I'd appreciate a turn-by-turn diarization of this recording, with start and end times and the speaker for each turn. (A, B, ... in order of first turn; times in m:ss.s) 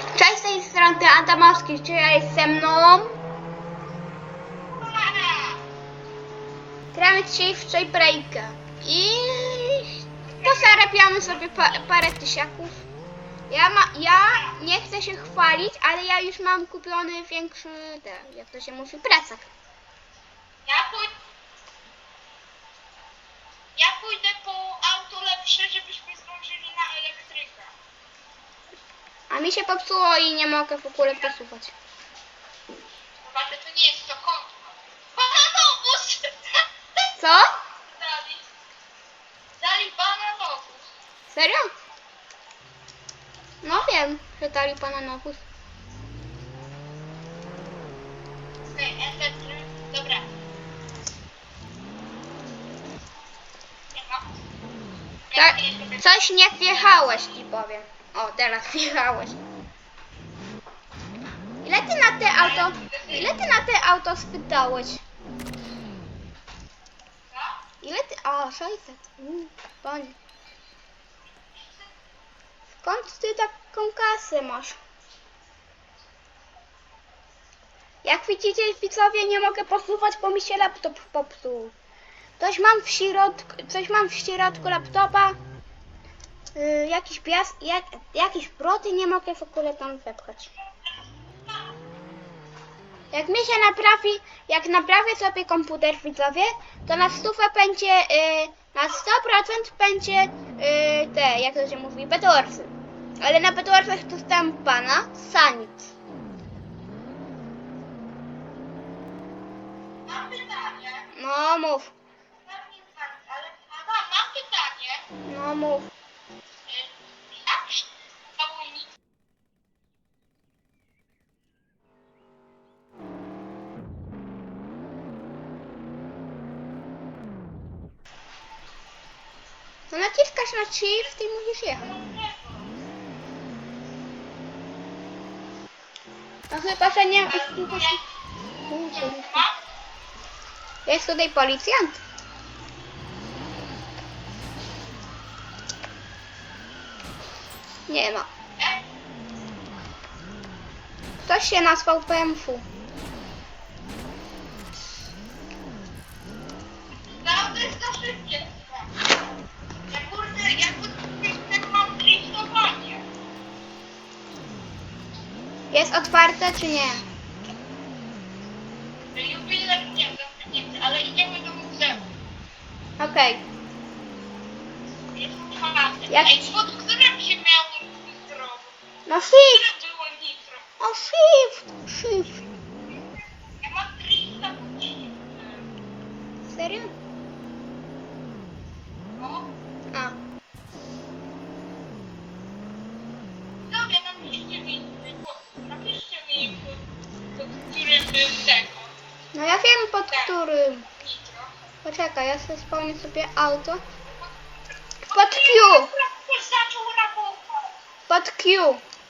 0:00.1-0:03.1 A
0:04.7-0:05.6 B
0:06.9-0:12.8 A
0:10.2-0:11.8 B
0:13.5-0:19.5 A
0:14.2-0:14.5 B
0:20.6-0:21.2 B
0:23.7-0:27.7 B
0:29.3-0:31.7 A
0:33.2-0:37.0 B
0:37.2-0:37.5 A
0:37.9-0:38.5 B
0:39.6-0:40.9 B
0:41.3-0:41.7 A
0:43.6-0:45.4 A
0:48.7-0:50.3 B
0:53.9-0:54.3 B
0:55.3-0:57.1 B
0:55.3-0:59.4 A
1:01.6-1:05.0 A
1:02.3-1:03.4 B
1:07.3-1:07.6 B
1:07.8-1:10.2 A
1:11.5-1:11.9 B
1:12.8-1:14.8 A
1:18.0-1:21.7 A
1:22.4-1:25.4 A
1:26.5-1:30.5 A
1:33.1-1:45.9 A
1:50.0-1:51.1 B
1:51.1-1:51.9 A
1:52.4-1:55.0 B
1:55.2-1:55.9 A
1:56.6-1:58.9 B
2:09.9-2:11.9 A
2:11.8-2:12.7 B
2:16.5-2:18.0 A
2:17.2-2:18.1 B
2:18.7-2:19.6 B
2:18.7-2:19.4 A
2:20.8-2:22.0 A
2:27.9-2:28.3 A
2:31.2-2:32.6 A
2:37.1-2:38.9 B
2:39.9-2:43.1 B
2:45.7-2:47.0 A
2:49.1-2:52.1 B
2:53.0-2:53.4 A
2:55.1-2:58.8 B
2:56.1-2:56.5 A
2:59.1-2:59.6 A
2:59.4-3:00.6 B
3:00.8-3:02.4 A
3:02.9-3:05.7 B
3:06.5-3:06.9 A
3:09.1-3:09.5 B
3:13.6-3:19.0 B
3:19.3-3:20.9 A
3:20.1-3:20.4 B
3:21.0-3:21.6 B
3:21.8-3:23.8 A
3:24.0-3:27.7 B
3:25.1-3:25.9 A
3:28.1-3:28.8 A